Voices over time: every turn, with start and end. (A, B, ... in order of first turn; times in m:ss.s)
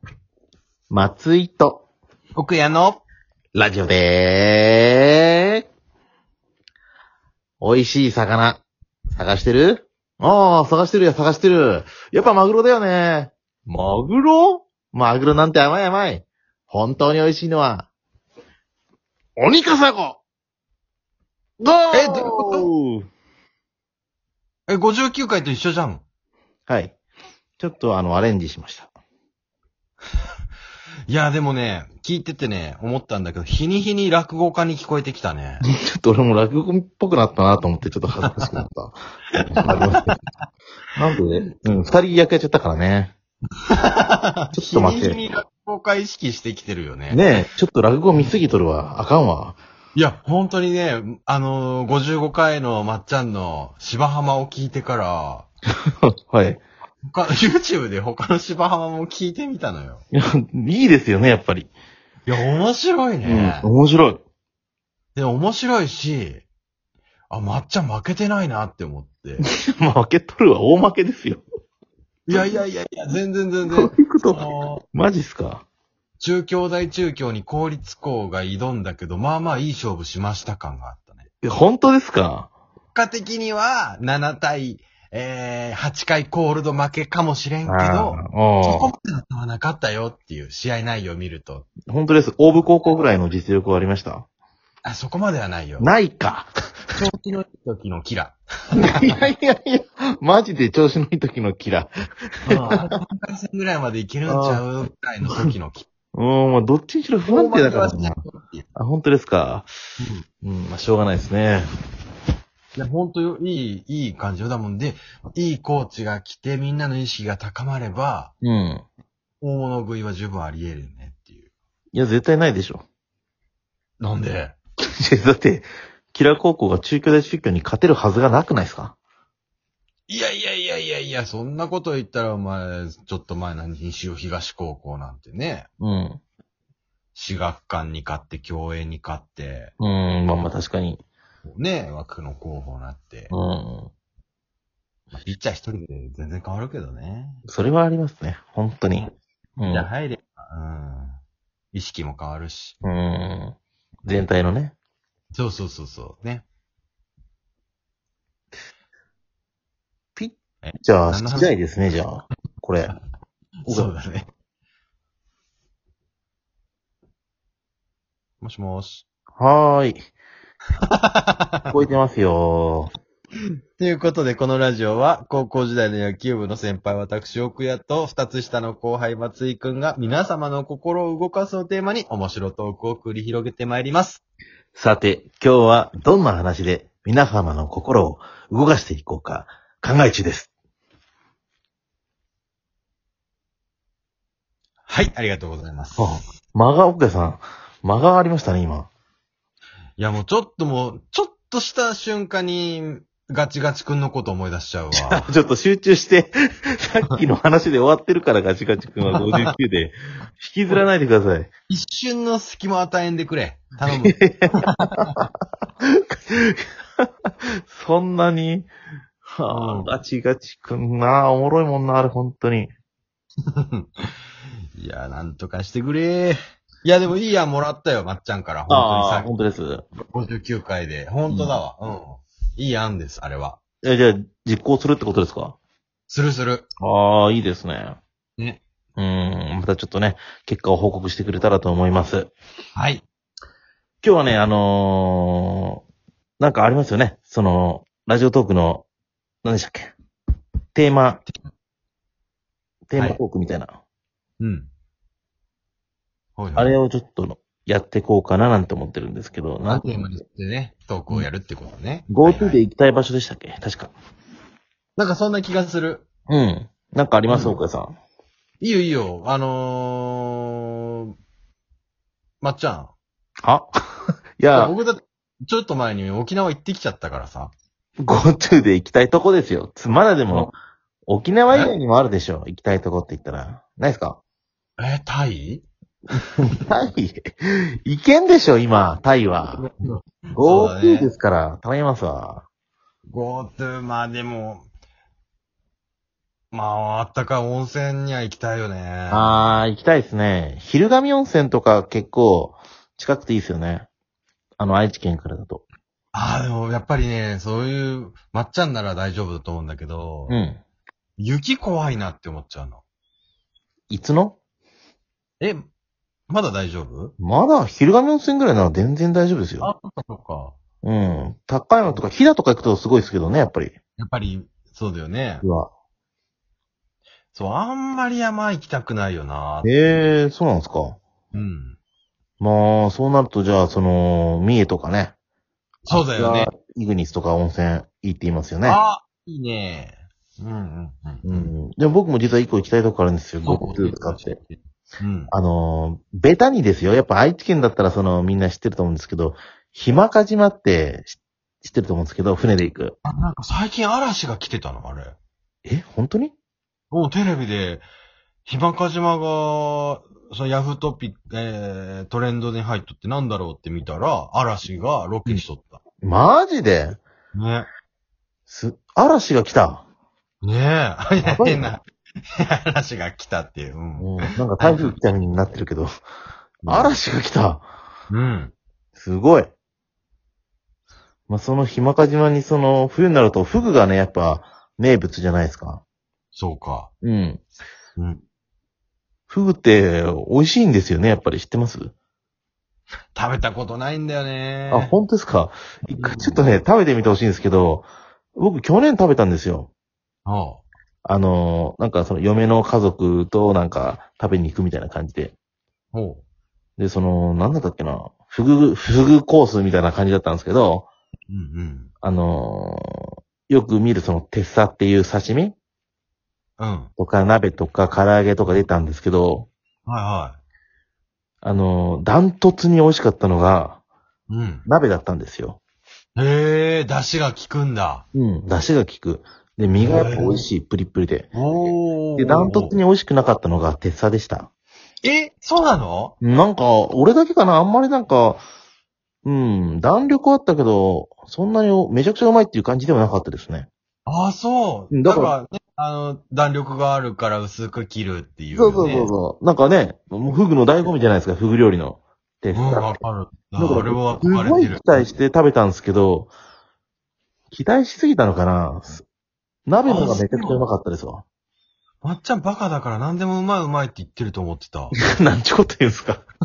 0:00.9-0:01.8 A
0:02.4-0:03.0 B
0:03.5-0:05.6 A
0:07.6-0:08.6 A
0:09.2-0:17.9 A
0:19.4-0:20.2 A
0:21.6-0:23.1 A
0:21.9-0:22.7 B
0:24.7-0:26.0 B
0:26.7-0:27.0 A
0:27.6-0:28.9 A
0:31.1-0:35.6 B
0:35.6-0:39.0 A
0:39.4-0:40.1 B
0:39.6-0:40.2 A
0:41.0-0:43.1 A
0:43.7-0:47.3 B
0:44.5-0:45.2 A
0:47.1-0:49.6 A
0:50.0-0:55.5 B
0:55.9-0:56.6 A
0:57.1-1:00.0 B
1:00.1-1:01.7 A
1:02.3-1:03.7 B
1:03.2-1:04.2 A
1:05.2-1:06.4 B
1:07.3-1:09.4 B
1:09.4-1:11.4 A
1:12.3-1:14.8 B
1:12.3-1:12.6 A
1:13.7-1:15.7 A
1:16.2-1:21.3 B
1:21.4-1:22.5 A
1:22.9-1:31.7 B
1:27.7-1:28.9 A
1:31.9-1:34.3 A
1:34.8-1:35.9 B
1:35.8-1:36.5 A
1:37.0-1:39.2 B
1:38.8-1:42.9 A
1:42.5-1:45.9 B
1:44.3-1:44.6 A
1:46.2-1:48.2 A
1:47.3-1:48.7 B
1:48.8-1:49.7 A
1:50.4-1:51.7 A
1:52.8-1:58.3 B
1:58.4-1:58.9 A
1:59.4-2:01.5 B
2:01.9-2:02.8 A
2:04.0-2:04.6 B
2:05.0-2:09.0 A
2:10.1-2:15.7 B
2:15.8-2:16.2 A
2:17.1-2:19.7 B
2:19.8-2:21.0 A
2:21.5-2:23.3 B
2:23.3-2:23.9 A
2:25.1-2:27.4 B
2:27.5-2:29.9 A
2:29.7-2:31.2 B
2:31.7-2:32.8 B
2:32.8-2:34.8 A
2:35.3-2:36.4 B
2:40.2-2:42.9 A
2:40.6-2:41.6 B
2:43.7-2:44.3 B
2:43.7-2:43.9 A
2:48.4-2:49.1 B
2:49.4-2:50.0 A
2:50.8-2:51.7 B
2:51.7-2:52.9 A
2:53.8-3:04.2 B
3:04.8-3:10.5 A
3:14.9-3:16.2 B
3:16.0-3:18.9 A
3:20.0-3:25.3 B
3:24.9-3:31.5 A
3:29.1-3:29.5 B
3:31.7-3:35.1 B
3:33.9-3:35.3 A
3:35.8-3:37.1 A
3:37.7-3:38.7 A
3:39.3-3:42.7 A
3:39.5-3:39.9 B
3:43.5-3:44.1 B
3:44.8-3:49.3 B
3:48.7-3:49.9 A
3:50.1-3:53.6 B
3:51.3-3:51.6 A
3:53.8-3:55.6 A
3:56.1-3:56.7 B
3:56.8-3:58.0 A
3:59.0-4:02.3 A
4:02.8-4:03.0 B
4:04.0-4:05.8 A
4:06.4-4:08.9 A
4:09.4-4:09.9 A
4:10.8-4:11.2 A
4:12.9-4:13.8 A
4:13.0-4:13.2 B
4:14.4-4:14.7 B
4:16.4-4:16.8 B
4:16.6-4:20.2 A
4:19.7-4:22.6 B
4:22.1-4:23.9 A
4:25.0-4:26.1 B
4:26.3-4:28.0 A
4:27.3-4:27.6 B
4:28.6-4:31.1 B
4:32.4-4:32.9 B
4:33.4-4:33.7 A
4:34.4-4:34.8 A
4:34.5-4:37.5 B
4:38.0-4:40.5 A
4:41.1-4:44.2 A
4:44.8-4:45.7 B
4:46.4-4:49.6 A
4:49.6-4:51.1 B
4:50.4-4:52.4 A
4:53.1-4:54.7 B
4:56.5-4:59.6 B
4:59.1-5:03.9 A
5:04.6-5:05.6 A
5:06.1-5:10.4 B
5:10.3-5:10.6 A
5:11.2-5:12.8 B
5:13.9-5:14.4 A
5:15.4-5:15.7 B
5:16.3-5:17.2 B
5:17.2-5:19.7 A
5:19.6-5:20.6 B
5:20.8-5:23.8 A
5:24.0-5:25.5 B
5:25.4-5:25.7 A
5:27.3-5:29.8 B
5:29.6-5:31.0 A
5:31.3-5:31.8 B
5:32.4-5:35.2 A
5:35.9-5:36.5 B
5:35.9-5:38.8 A
5:38.6-5:41.6 B
5:41.2-5:44.4 A
5:43.4-5:45.3 B
5:45.3-5:53.0 A
5:53.0-5:55.2 B
5:55.6-5:56.4 A
5:56.9-5:57.8 B
5:58.5-6:05.8 B
6:06.0-6:07.0 A
6:07.3-6:07.7 B
6:08.5-6:09.8 A
6:10.4-6:11.8 B
6:11.2-6:11.8 A
6:12.4-6:15.0 B
6:14.0-6:15.9 A
6:16.6-6:16.9 B
6:16.7-6:17.6 A
6:18.1-6:18.5 B
6:19.0-6:19.5 A
6:21.3-6:25.8 A
6:26.3-6:26.9 B
6:27.0-6:27.4 A
6:28.0-6:28.2 B
6:29.3-6:31.9 A
6:33.2-6:34.9 B
6:34.7-6:39.7 A
6:35.9-6:36.4 B
6:40.3-6:40.6 B
6:41.0-6:45.3 A
6:45.9-6:46.2 B
6:46.8-6:50.9 A
6:51.3-6:51.9 B
6:52.0-6:55.6 A
6:56.6-6:56.9 B
6:57.0-6:59.5 A
6:59.9-7:00.4 B
7:01.4-7:03.8 A
7:04.3-7:04.7 B
7:04.7-7:05.6 A
7:06.2-7:08.0 B
7:08.1-7:11.3 A
7:09.8-7:10.4 B
7:11.3-7:12.8 B
7:12.2-7:14.5 A
7:15.0-7:16.2 B
7:16.2-7:18.4 A
7:19.2-7:23.7 A
7:24.1-7:29.1 B
7:24.9-7:25.4 A
7:28.5-7:32.9 A
7:32.5-7:34.9 B
7:33.6-7:36.3 A
7:37.5-7:39.0 A
7:39.7-7:41.2 A
7:39.8-7:40.6 B
7:42.0-7:44.9 B
7:45.0-7:46.2 A